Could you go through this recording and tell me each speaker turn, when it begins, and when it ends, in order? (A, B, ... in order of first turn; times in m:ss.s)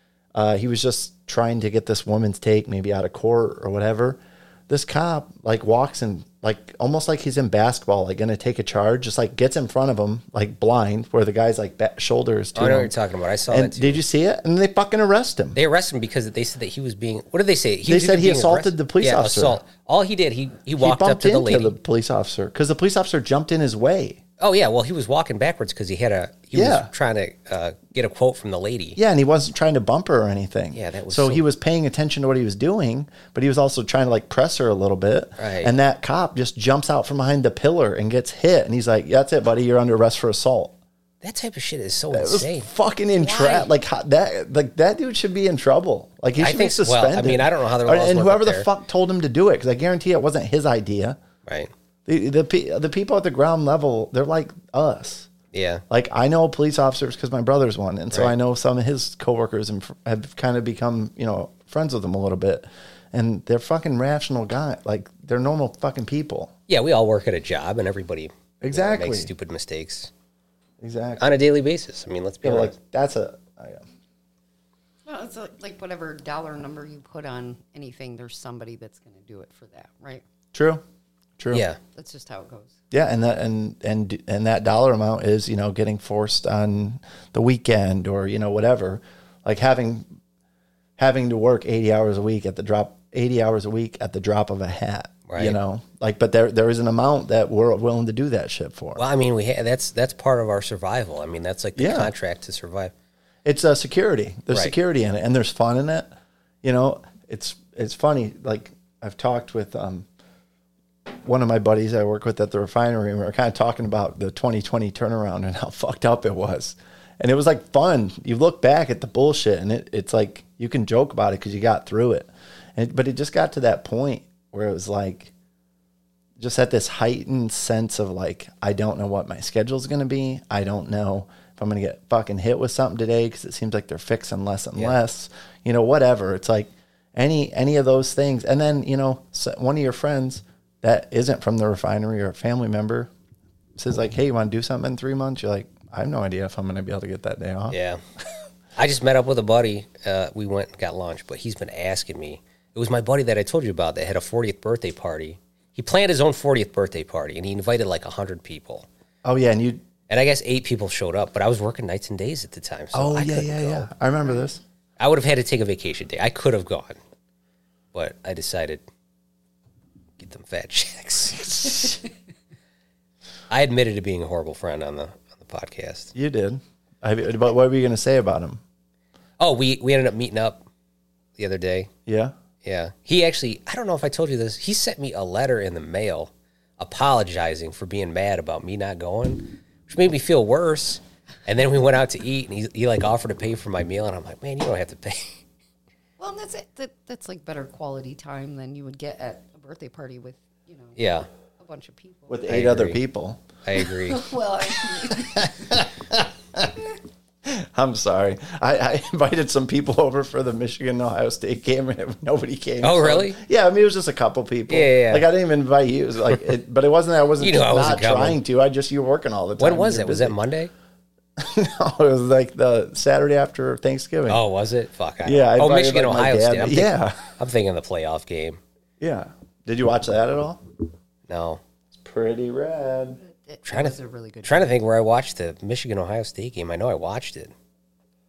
0:00.3-0:12.9 A
0:12.6-0:14.0 B
0:13.5-0:15.6 A
0:15.6-0:21.8 B
0:17.8-0:19.6 A
0:20.8-0:24.2 A
0:24.4-0:29.0 B
0:26.5-0:26.9 A
0:29.0-0:40.8 A
0:30.7-0:31.4 B
0:35.4-0:35.7 B
0:41.2-0:42.7 B
0:42.1-0:51.2 A
0:43.2-0:43.7 B
0:46.4-0:48.7 B
0:51.5-0:51.7 B
0:52.1-0:55.3 A
0:55.5-0:55.8 B
0:55.9-1:06.5 A
1:06.7-1:10.1 B
1:08.6-1:09.3 A
1:10.8-1:11.3 A
1:11.2-1:12.8 B
1:12.4-1:13.9 A
1:15.1-1:20.2 C
1:20.5-1:20.8 A
1:21.4-1:21.6 A
1:21.5-1:21.8 B
1:21.9-1:22.8 C
1:22.9-1:30.1 A
1:31.0-1:39.0 A
1:35.3-1:35.6 B
1:39.0-1:42.9 B
1:41.8-1:42.1 A
1:43.4-1:46.1 A
1:46.6-1:50.0 A
1:51.2-2:05.3 A
2:06.4-2:23.1 A
2:23.8-2:27.8 A
2:27.7-2:28.0 B
2:28.8-2:38.9 B
2:39.2-2:39.8 A
2:40.1-2:43.9 B
2:42.9-2:44.6 A
2:45.0-2:47.0 B
2:47.9-2:48.8 B
2:50.2-2:52.0 B
2:53.5-2:56.1 B
2:56.2-2:58.6 A
2:59.4-3:00.6 B
3:01.4-3:01.9 B
3:02.1-3:02.3 A
3:02.6-3:15.4 B
3:16.2-3:21.0 C
3:21.0-3:21.3 B
3:21.6-3:22.4 C
3:22.3-3:23.4 A
3:22.5-3:23.0 B
3:23.6-3:24.2 B
3:24.1-3:25.8 C
3:25.0-3:26.8 A
3:27.4-3:40.4 A
3:32.8-3:33.4 B
3:34.7-3:35.3 B
3:37.4-3:38.4 B
3:39.6-3:40.7 B
3:41.4-3:44.4 A
3:44.3-3:48.6 B
3:45.2-3:47.4 A
3:49.0-3:50.6 A
3:51.3-3:51.6 B
3:51.9-3:53.2 A
3:53.2-3:54.8 C
3:53.7-3:57.5 B